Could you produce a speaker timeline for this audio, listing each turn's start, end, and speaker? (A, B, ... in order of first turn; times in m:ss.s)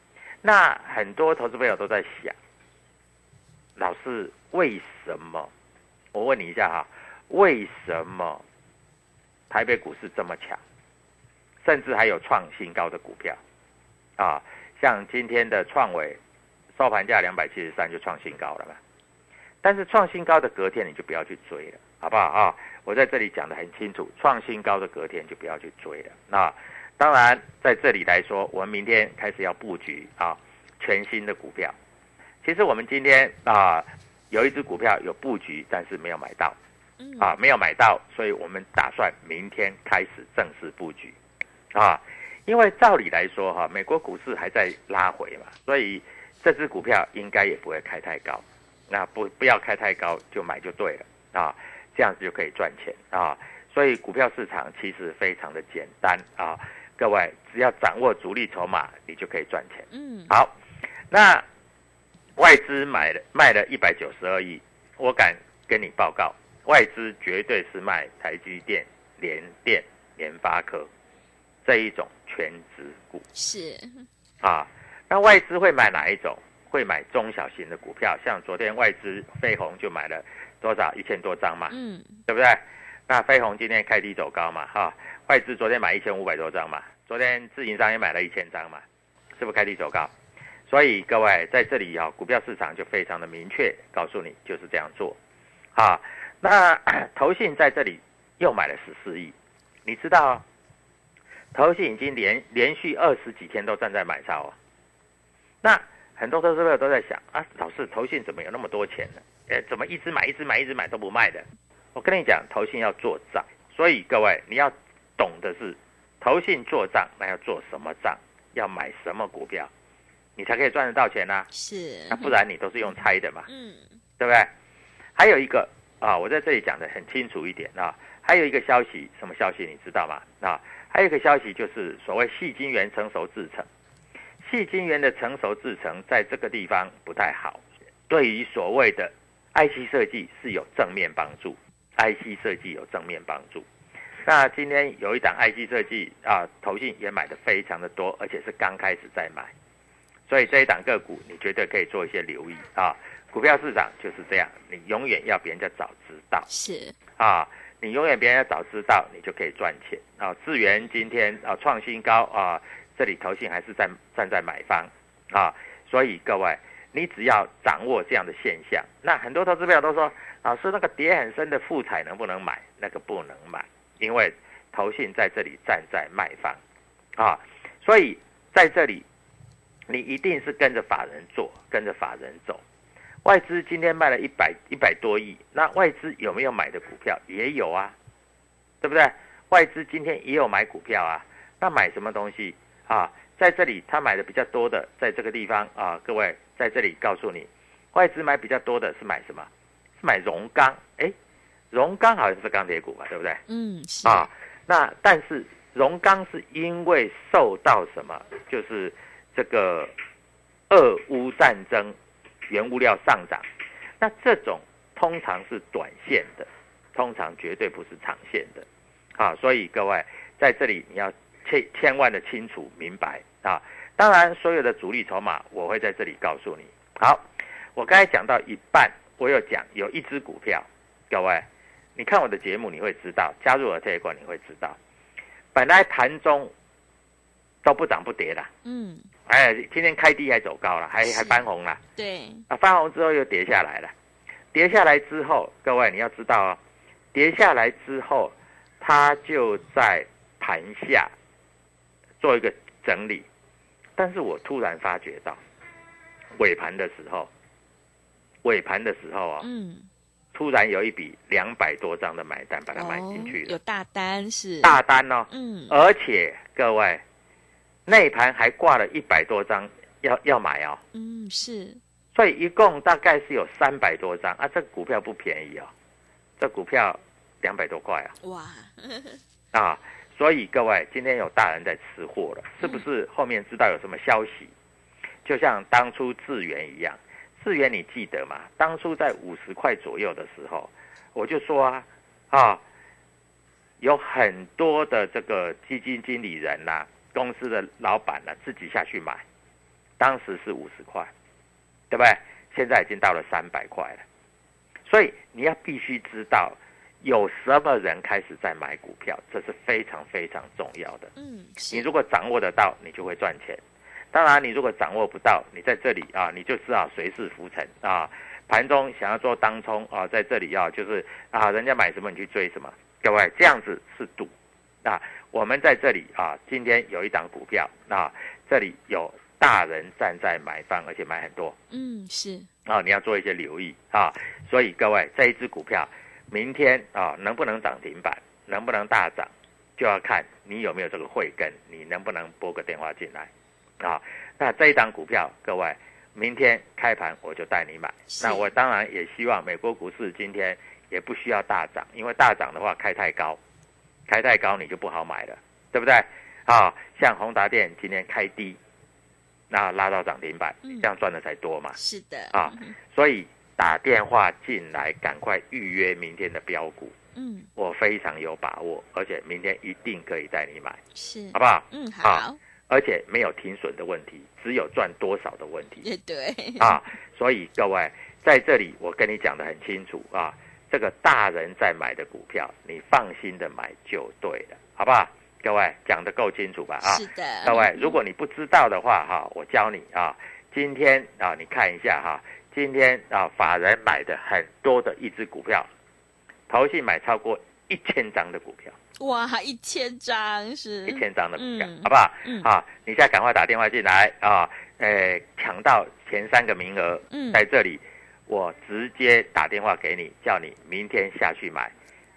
0:00.4-0:02.4 A
0:03.8-0:05.5 A
0:06.1-0:08.4 A
0:09.5-0:10.6 A
0:11.6-0:13.4 A
0:14.2-0:16.2 A
0:16.8-0:18.8 A
0:19.6-0:31.7 A
0:32.4-0:36.6 A
0:37.0-0:37.3 B
0:37.2-0:41.2 A
0:41.7-1:00.5 A
0:59.9-1:00.3 B
1:01.1-1:01.4 A
1:02.4-1:10.9 A
1:11.6-1:13.2 A
1:13.4-1:14.0 B
1:14.4-1:21.7 A
1:21.7-1:22.1 B
1:22.3-1:28.8 A
1:29.4-1:30.1 A
1:30.7-1:35.2 A
1:35.7-1:39.3 A
1:39.8-1:40.4 A
1:41.5-1:44.5 A
1:45.6-1:59.7 A
2:00.4-2:01.5 A
2:01.5-2:02.3 B
2:02.1-2:03.4 A
2:03.5-2:03.9 B
2:04.2-2:04.5 A
2:05.2-2:13.7 A
2:14.4-2:23.6 A
2:24.2-2:29.5 A
2:30.3-2:36.5 A
2:36.5-2:36.9 B
2:37.2-2:56.6 A
2:57.2-2:59.0 A
2:59.9-3:02.6 A
3:03.2-3:07.9 A
3:08.8-3:19.5 A
3:20.0-3:21.1 A
3:21.7-3:23.4 A
3:23.5-3:24.3 B
3:24.0-3:29.9 A
3:30.7-3:31.9 A
3:32.5-3:33.4 A
3:34.0-3:38.6 A
3:39.2-3:47.2 A
3:47.8-3:54.8 A
3:55.5-3:56.5 A
3:57.6-3:58.5 A
3:58.6-3:59.1 B
3:59.3-4:01.8 A
4:01.0-4:01.4 B
4:02.0-4:02.4 B
4:02.5-4:03.9 A
4:04.5-4:06.6 A
4:07.1-4:11.1 A
4:12.2-4:13.2 A
4:14.0-4:15.4 A
4:16.4-4:17.3 A
4:18.4-4:19.5 A
4:19.4-4:19.9 B
4:20.3-4:23.6 A
4:22.7-4:24.8 B
4:24.6-4:27.0 A
4:25.3-4:25.7 B
4:27.8-4:30.8 A
4:30.9-4:31.8 B
4:32.1-4:35.7 A
4:36.4-4:38.2 A
4:38.2-4:39.2 B
4:39.5-4:44.5 A
4:45.2-4:52.6 A
4:53.8-4:59.2 A
5:00.0-5:01.1 A
5:01.9-5:04.0 A
5:04.9-5:11.1 A
5:11.2-5:11.8 B
5:11.7-5:13.6 A
5:14.1-5:24.3 A
5:24.8-5:31.6 A
5:31.7-5:32.5 B
5:32.6-5:43.3 A
5:43.8-5:53.4 A
5:48.1-5:48.5 B
5:54.1-5:58.6 A
5:59.5-6:01.8 A
6:01.8-6:02.7 B
6:02.3-6:06.9 A
6:07.2-6:07.5 B
6:07.6-6:10.8 A
6:10.9-6:12.4 B
6:11.3-6:15.8 A
6:15.8-6:16.8 B
6:16.6-6:35.7 A
6:26.8-6:28.0 B
6:36.5-6:38.8 A
6:39.0-6:42.5 B
6:40.9-6:51.7 A
6:47.1-6:47.4 B